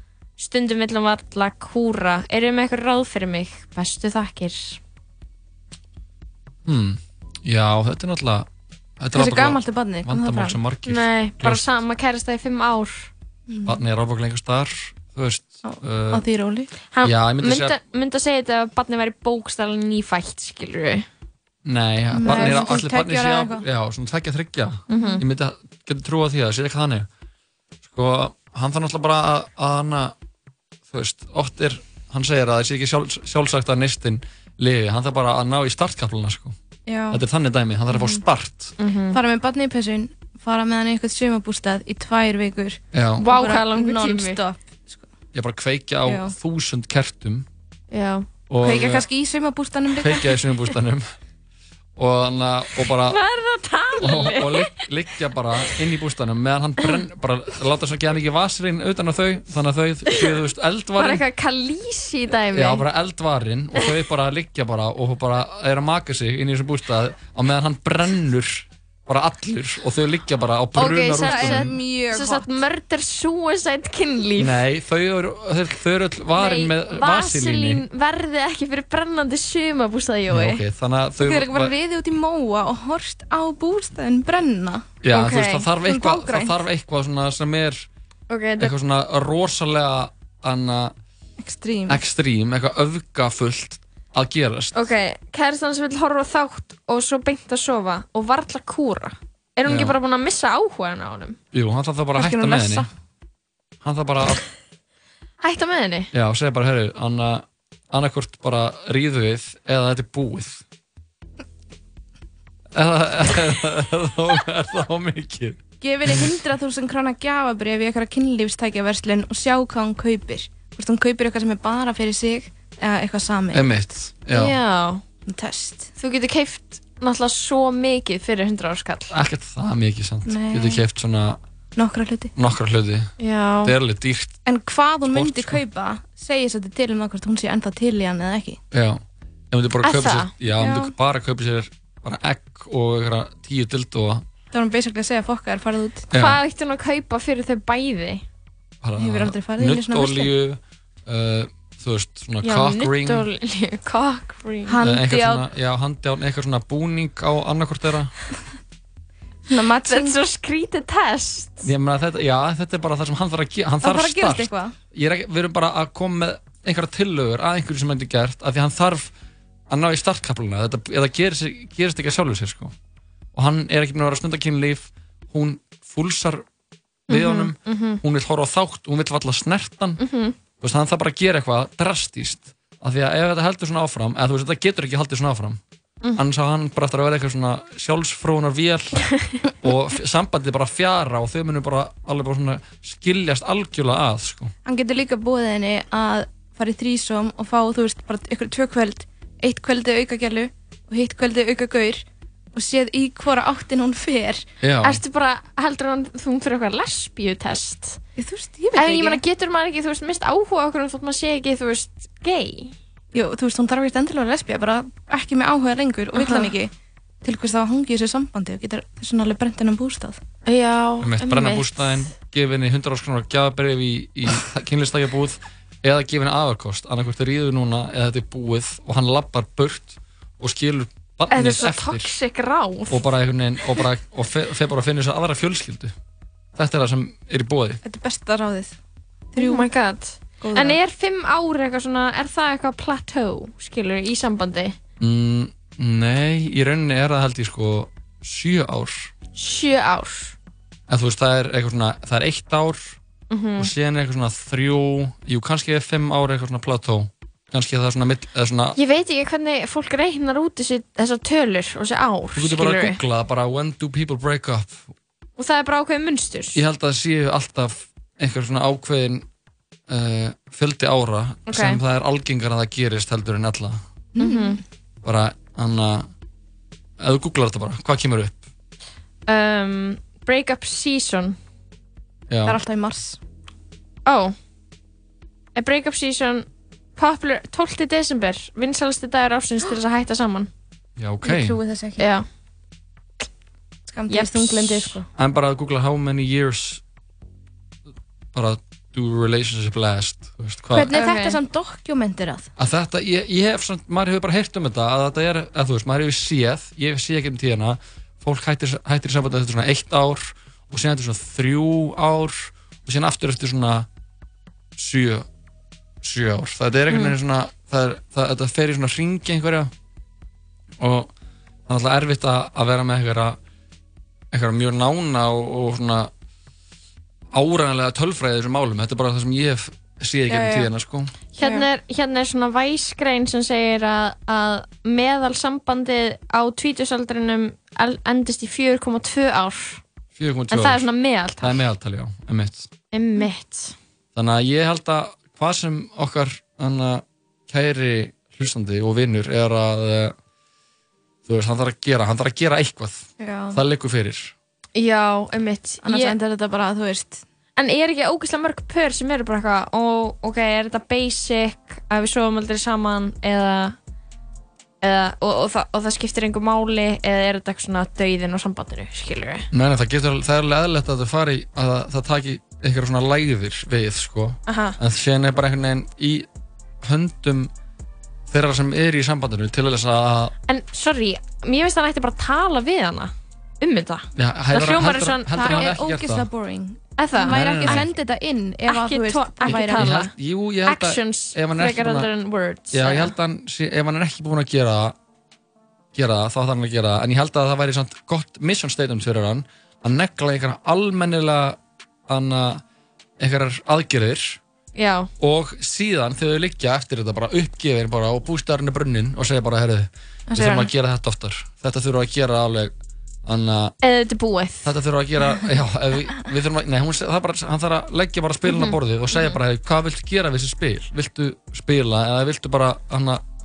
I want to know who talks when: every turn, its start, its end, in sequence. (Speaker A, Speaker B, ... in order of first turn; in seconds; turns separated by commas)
Speaker A: 0.4-4.8, Speaker B: 6.7-8.5, Speaker B: 9.0-11.7, Speaker C: 9.1-10.6, Speaker A: 10.9-13.1, Speaker C: 13.5-13.8, Speaker B: 13.7-16.2, Speaker C: 15.6-16.7, Speaker A: 16.9-21.1, Speaker B: 17.0-17.8, Speaker B: 21.6-27.1, Speaker C: 22.1-23.6, Speaker A: 22.2-22.8, Speaker A: 24.9-25.2, Speaker B: 27.9-30.1, Speaker B: 30.9-36.6, Speaker C: 36.9-37.2, Speaker B: 37.1-38.7, Speaker C: 37.9-38.2, Speaker A: 38.8-39.2, Speaker C: 39.1-45.1, Speaker B: 42.9-43.2, Speaker A: 43.2-44.4, Speaker B: 45.3-47.5, Speaker C: 46.0-46.3, Speaker A: 47.9-48.3, Speaker B: 48.5-49.1, Speaker C: 48.6-50.4, Speaker B: 50.0-51.0, Speaker B: 52.0-53.2, Speaker A: 53.1-54.7, Speaker B: 54.0-61.2, Speaker A: 61.0-62.8, Speaker B: 62.5-71.8, Speaker A: 70.8-74.6, Speaker C: 71.2-72.5, Speaker B: 74.4-77.8, Speaker A: 76.4-80.6, Speaker B: 80.3-81.8, Speaker C: 81.2-85.0, Speaker B: 85.0-87.9, Speaker A: 85.1-85.7, Speaker C: 85.7-86.6, Speaker A: 88.3-88.7, Speaker B: 88.6-91.0, Speaker C: 91.4-92.0, Speaker B: 91.9-94.7, Speaker A: 94.8-101.4, Speaker B: 99.7-100.0, Speaker B: 101.5-102.9, Speaker C: 102.2-102.9, Speaker B: 103.8-104.4, Speaker A: 105.4-106.1, Speaker B: 106.1-110.6, Speaker B: 112.7-115.6, Speaker C: 115.8-123.7, Speaker B: 123.5-124.5, Speaker A: 124.3-125.0, Speaker C: 125.3-125.9, Speaker A: 126.0-129.1, Speaker B: 129.1-131.4, Speaker C: 130.3-130.8, Speaker C: 131.8-132.3, Speaker B: 132.3-133.1, Speaker A: 133.2-133.7, Speaker B: 133.6-134.4, Speaker C: 134.4-138.6, Speaker B: 135.1-135.6, Speaker B: 138.7-144.2, Speaker A: 139.8-140.3, Speaker C: 140.6-140.9, Speaker C: 144.5-146.1, Speaker B: 146.1-146.4, Speaker A: 146.2-148.2, Speaker B: 148.8-153.3, Speaker C: 149.0-150.3, Speaker A: 152.4-154.8, Speaker C: 154.7-155.5, Speaker B: 154.8-158.1, Speaker C: 159.5-160.2, Speaker A: 159.9-161.7, Speaker B: 161.6-169.1, Speaker C: 163.8-164.7, Speaker B: 169.7-172.7, Speaker B: 173.3-176.4, Speaker B: 177.1-180.0, Speaker A: 177.1-178.0, Speaker A: 180.0-180.4, Speaker B: 180.6-185.6, Speaker B: 186.2-189.0, Speaker B: 189.6-194.5, Speaker C: 194.7-204.4, Speaker B: 204.6-205.0, Speaker A: 204.8-208.0, Speaker C: 208.2-209.2, Speaker A: 208.8-212.8, Speaker C: 213.1-216.7, Speaker A: 216.1-216.5, Speaker C: 217.2-220.2, Speaker A: 220.5-222.1, Speaker B: 221.0-232.1, Speaker A: 231.3-233.1, Speaker B: 232.9-235.9, Speaker B: 236.6-237.8, Speaker C: 237.8-238.8, Speaker C: 239.3-239.7, Speaker A: 239.4-244.8, Speaker C: 240.4-240.8, Speaker B: 245.0-249.1, Speaker A: 249.4-250.3, Speaker B: 250.9-253.0, Speaker A: 253.3-253.7, Speaker B: 253.6-258.8, Speaker A: 258.8-263.0, Speaker B: 262.4-264.9, Speaker A: 265.4-266.6, Speaker B: 266.5-269.3, Speaker B: 269.9-273.8, Speaker A: 271.5-271.8, Speaker C: 274.2-274.6, Speaker A: 274.2-274.6, Speaker B: 275.0-276.1, Speaker B: 277.0-278.4, Speaker A: 279.3-281.4, Speaker B: 282.3-282.6, Speaker C: 282.4-283.2, Speaker A: 284.1-284.4, Speaker A: 285.6-290.5, Speaker B: 291.0-291.6, Speaker C: 291.2-292.1, Speaker A: 292.0-292.2, Speaker C: 293.9-295.1, Speaker A: 294.1-295.0, Speaker B: 295.1-296.8, Speaker B: 298.3-300.9, Speaker C: 300.7-302.5, Speaker A: 300.9-301.4, Speaker B: 302.6-313.9, Speaker B: 314.8-315.3, Speaker B: 316.0-319.7, Speaker A: 316.9-317.1, Speaker B: 320.8-321.1, Speaker B: 321.7-323.4, Speaker B: 324.3-326.1, Speaker B: 327.3-331.1, Speaker C: 330.3-330.7, Speaker A: 331.4-339.8, Speaker C: 331.4-331.7, Speaker B: 340.1-340.8, Speaker A: 340.5-341.6, Speaker B: 341.4-342.7, Speaker A: 342.9-343.8, Speaker B: 344.1-350.1, Speaker B: 351.3-354.3, Speaker C: 353.2-353.6, Speaker A: 354.8-356.2, Speaker C: 355.8-357.2, Speaker A: 357.6-363.8, Speaker A: 364.8-369.5, Speaker B: 369.5-376.3, Speaker A: 374.5-374.8, Speaker B: 376.8-377.5, Speaker B: 378.3-380.3, Speaker A: 380.5-385.8, Speaker B: 384.1-386.3, Speaker C: 385.3-390.1, Speaker A: 387.0-387.9, Speaker B: 387.3-387.9, Speaker A: 388.7-390.1, Speaker B: 389.5-392.1, Speaker A: 390.7-393.1, Speaker B: 392.7-394.9, Speaker B: 395.9-402.6, Speaker B: 403.2-404.4, Speaker A: 404.8-405.1, Speaker B: 405.2-413.8, Speaker C: 410.3-410.7, Speaker A: 413.8-414.7, Speaker B: 414.6-423.3, Speaker A: 418.5-419.4